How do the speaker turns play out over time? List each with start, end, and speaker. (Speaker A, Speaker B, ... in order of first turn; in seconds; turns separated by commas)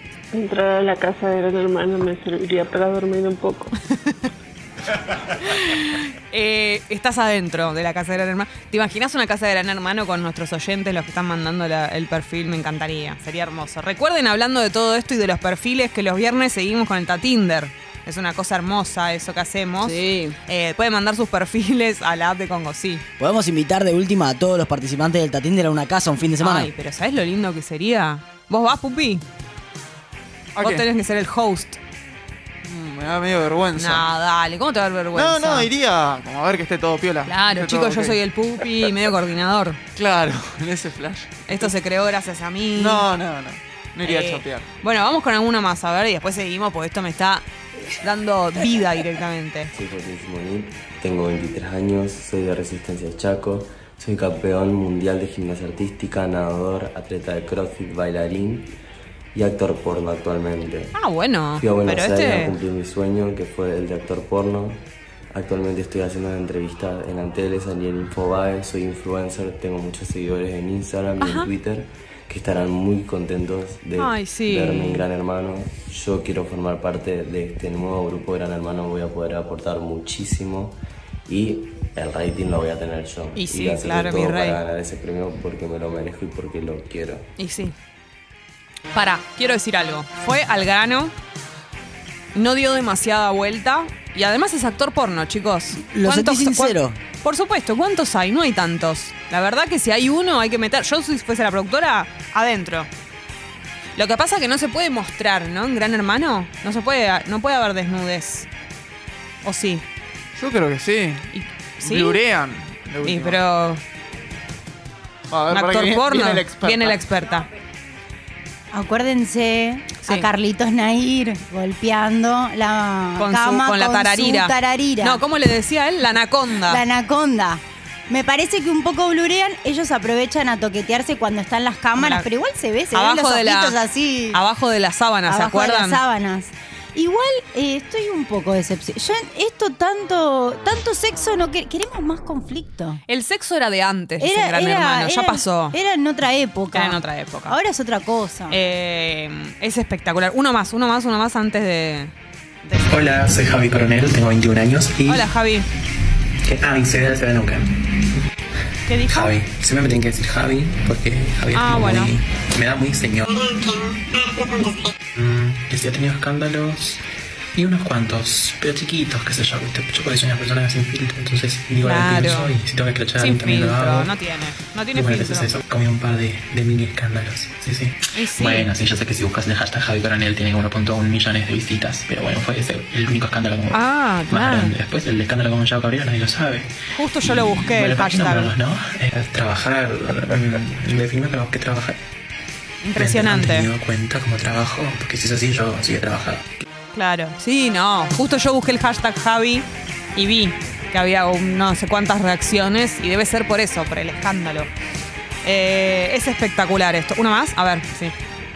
Speaker A: 0.3-3.7, Speaker B: 5.4-23.0, Speaker C: 23.2-26.7, Speaker B: 26.4-29.2, Speaker D: 30.6-30.8, Speaker B: 30.6-31.8, Speaker D: 32.6-34.0, Speaker B: 33.7-35.7, Speaker D: 35.1-38.2, Speaker B: 37.2-39.8, Speaker D: 40.0-41.7, Speaker B: 41.5-43.1, Speaker D: 42.8-44.7, Speaker B: 44.0-47.4, Speaker B: 48.0-49.7, Speaker E: 49.7-58.7, Speaker E: 59.3-61.0, Speaker B: 60.9-62.5, Speaker E: 61.5-87.3, Speaker B: 71.2-71.5, Speaker B: 74.0-75.0, Speaker B: 83.3-84.6, Speaker B: 87.4-87.7, Speaker B: 88.9-91.1, Speaker B: 92.3-102.9, Speaker C: 95.7-97.0, Speaker B: 104.0-108.5, Speaker B: 109.4-109.8, Speaker D: 110.3-113.4, Speaker B: 111.3-112.2, Speaker B: 113.0-113.8, Speaker D: 115.3-117.0, Speaker B: 115.5-117.5, Speaker F: 118.7-125.2, Speaker B: 120.0-120.3, Speaker B: 123.2-126.8, Speaker F: 126.7-134.4, Speaker B: 132.0-132.3, Speaker B: 132.9-133.8, Speaker B: 134.3-136.0, Speaker F: 135.3-143.0, Speaker B: 143.1-145.8, Speaker F: 144.2-148.6, Speaker B: 146.7-147.6, Speaker B: 148.5-152.1, Speaker B: 152.6-152.9, Speaker G: 152.8-155.3, Speaker B: 155.1-155.7, Speaker G: 156.4-158.0, Speaker B: 158.9-159.3, Speaker G: 159.1-167.0, Speaker B: 161.5-162.1, Speaker G: 167.5-174.1, Speaker B: 171.8-172.5, Speaker B: 173.2-175.5, Speaker G: 174.9-192.0, Speaker B: 178.1-178.7, Speaker B: 183.7-184.7, Speaker B: 186.9-188.5, Speaker B: 192.8-193.7, Speaker G: 192.9-196.7, Speaker B: 196.9-204.7, Speaker B: 205.4-208.1